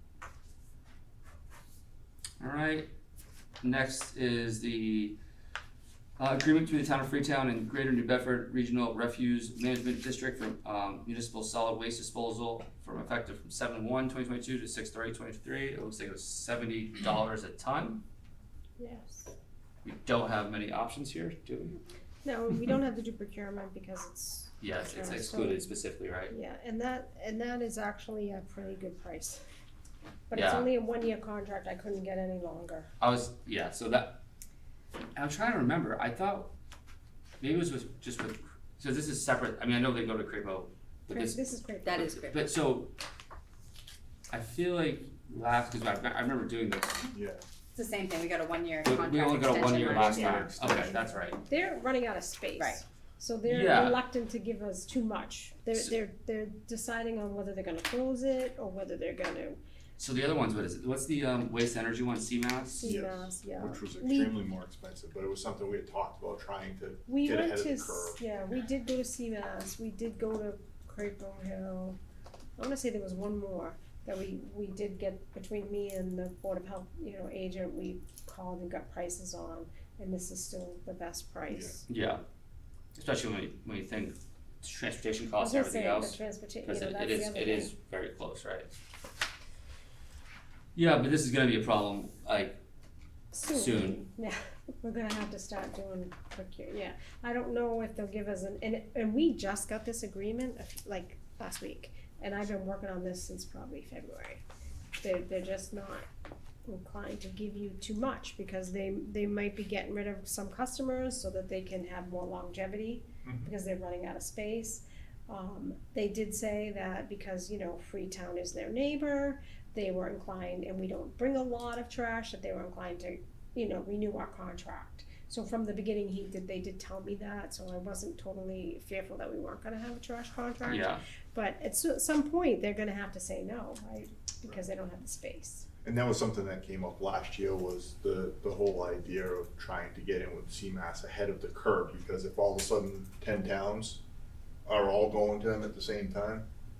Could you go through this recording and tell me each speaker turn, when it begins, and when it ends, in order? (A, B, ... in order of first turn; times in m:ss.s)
0:02.4-0:02.9 A
0:03.6-0:05.2 A
0:06.2-0:18.0 A
0:18.8-0:19.3 B
0:19.8-0:21.8 A
0:22.2-0:25.7 B
0:24.6-0:26.3 A
0:26.3-0:29.4 B
0:30.3-0:32.9 B
0:30.3-0:30.7 A
0:33.0-0:34.2 A
0:35.2-0:36.5 A
0:37.4-0:42.9 A
0:41.1-0:42.1 B
0:41.8-0:42.5 C
0:44.3-0:47.1 A
0:47.1-0:47.4 D
0:47.8-0:50.6 C
0:48.8-0:51.4 A
0:49.7-0:51.0 D
0:51.4-0:59.6 B
0:53.5-0:54.0 A
1:00.0-1:02.9 A
1:02.8-1:04.3 B
1:02.8-1:08.2 D
1:07.1-1:12.0 B
1:12.6-1:21.8 B
1:21.5-1:21.8 D
1:21.9-1:22.2 A
1:23.0-1:28.7 A
1:25.4-1:27.7 B
1:30.8-1:32.6 A
1:33.3-1:44.4 B
1:33.5-1:34.0 A
1:45.0-1:46.1 B
1:46.6-2:15.7 B
1:53.2-1:53.5 D
2:10.6-2:11.0 A
2:15.8-2:24.0 D
2:24.7-2:26.4 D